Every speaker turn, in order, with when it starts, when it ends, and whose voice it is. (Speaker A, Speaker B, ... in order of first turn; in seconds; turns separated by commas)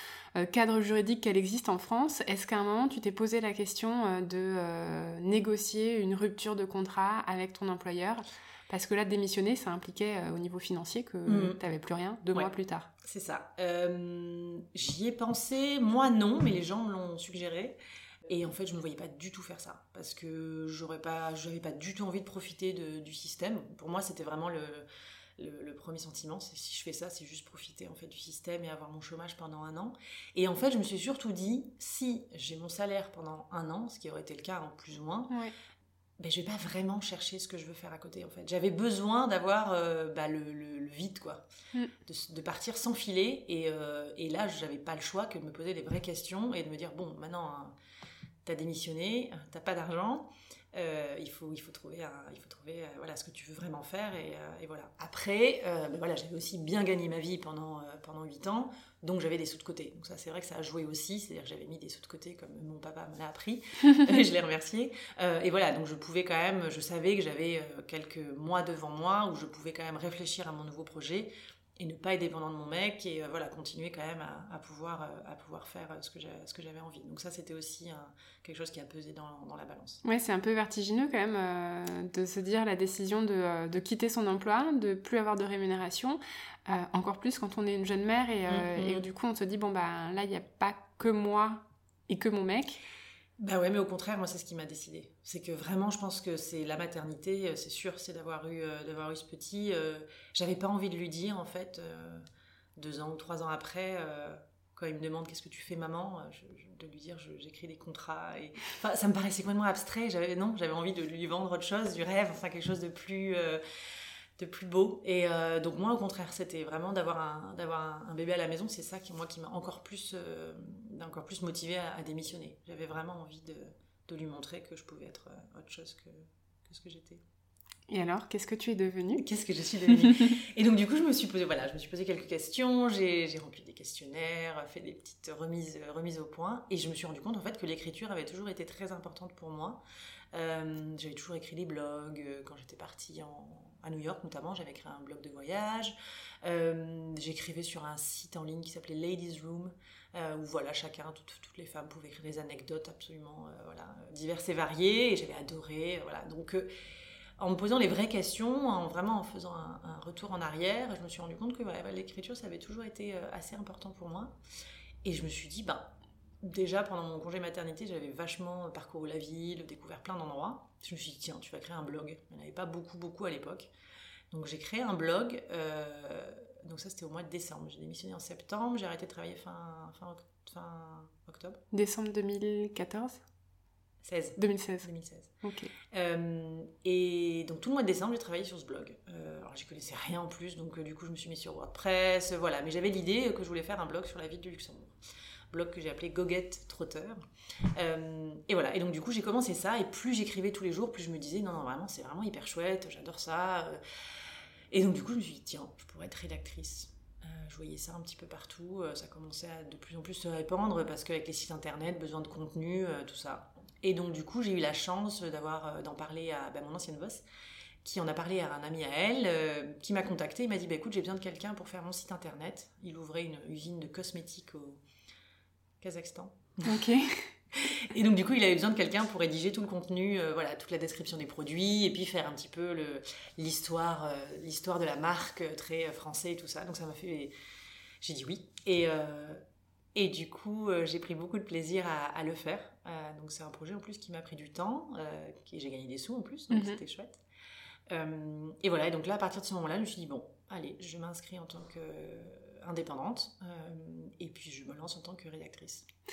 Speaker A: 0.3-12.9, Speaker B: 11.3-11.6, Speaker B: 13.0-24.8, Speaker B: 25.4-35.3, Speaker B: 36.2-41.4, Speaker B: 42.0-47.7, Speaker B: 48.4-80.0, Speaker A: 80.0-92.8, Speaker B: 88.5-89.0, Speaker B: 93.4-102.2, Speaker B: 102.8-113.6, Speaker B: 114.4-127.2, Speaker A: 127.9-129.2, Speaker B: 129.1-139.8, Speaker A: 129.9-130.3, Speaker B: 140.3-156.7, Speaker B: 157.4-164.3, Speaker B: 165.0-173.7, Speaker B: 174.3-181.6, Speaker A: 181.7-183.2, Speaker B: 184.0-185.3, Speaker A: 184.4-184.9, Speaker A: 185.4-185.7, Speaker B: 185.9-194.9, Speaker B: 195.5-197.2, Speaker B: 197.7-203.8, Speaker B: 204.7-217.2, Speaker B: 217.8-224.8, Speaker B: 225.8-226.8, Speaker A: 226.6-227.3, Speaker B: 227.5-237.3, Speaker B: 238.0-239.4, Speaker B: 239.9-247.2, Speaker A: 246.5-246.8, Speaker B: 247.9-255.8